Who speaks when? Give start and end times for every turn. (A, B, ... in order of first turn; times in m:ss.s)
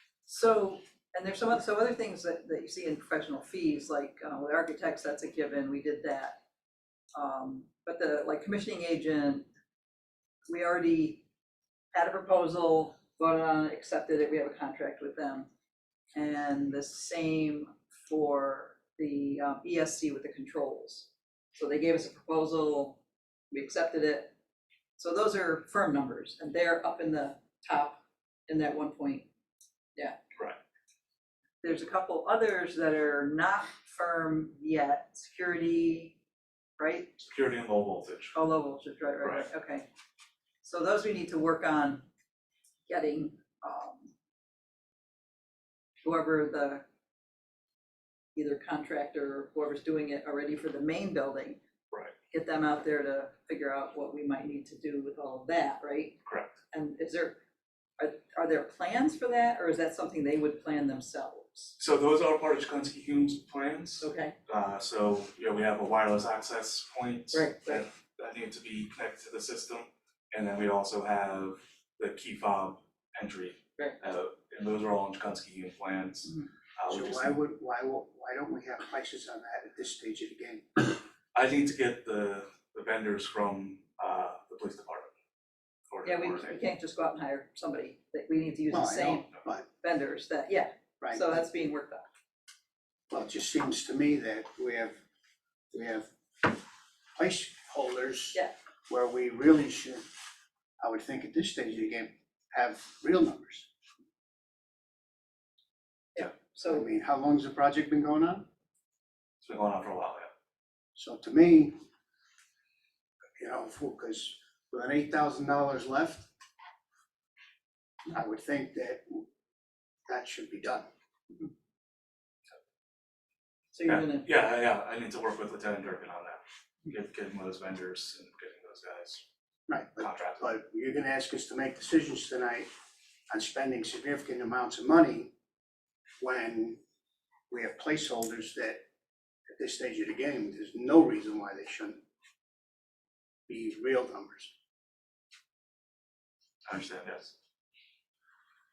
0:00.3-0:06.4 A
0:07.1-0:09.5 A
0:10.5-0:11.2 A
0:11.9-0:15.5 A
0:16.1-0:23.0 A
0:23.5-0:24.3 A
0:25.0-0:29.3 A
0:31.6-0:36.2 A
0:36.8-0:37.2 A
0:37.2-0:38.4 B
0:38.3-0:39.9 A
0:39.2-0:39.5 B
0:40.6-0:42.0 A
0:42.9-0:44.1 A
0:46.0-0:46.8 A
0:48.4-0:51.6 A
0:52.3-0:56.2 A
0:56.2-0:56.6 B
0:56.7-0:57.4 A
0:58.0-1:01.8 A
1:01.8-1:17.4 B
1:04.0-1:04.3 A
1:07.3-1:07.9 A
1:16.9-1:21.0 C
1:21.3-1:25.1 B
1:25.9-1:26.6 B
1:26.0-1:32.1 A
1:28.7-1:29.7 C
1:31.0-1:31.2 C
1:33.1-1:35.0 C
1:35.7-1:36.6 C
1:37.2-1:40.0 C
1:40.8-1:43.7 C
1:46.2-1:46.8 A
1:46.6-1:48.5 C
1:49.4-1:50.3 B
1:51.0-1:51.8 C
1:53.4-1:56.3 C
1:58.1-1:59.3 C
2:00.1-2:00.9 C
2:03.7-2:04.3 A
2:03.8-2:09.2 B
2:09.7-2:12.7 C
2:10.0-2:10.5 B
2:13.3-2:15.3 C
2:16.2-2:16.8 C
2:17.5-2:18.8 C
2:19.5-2:22.0 C
2:23.5-2:24.5 C
2:26.7-2:27.3 B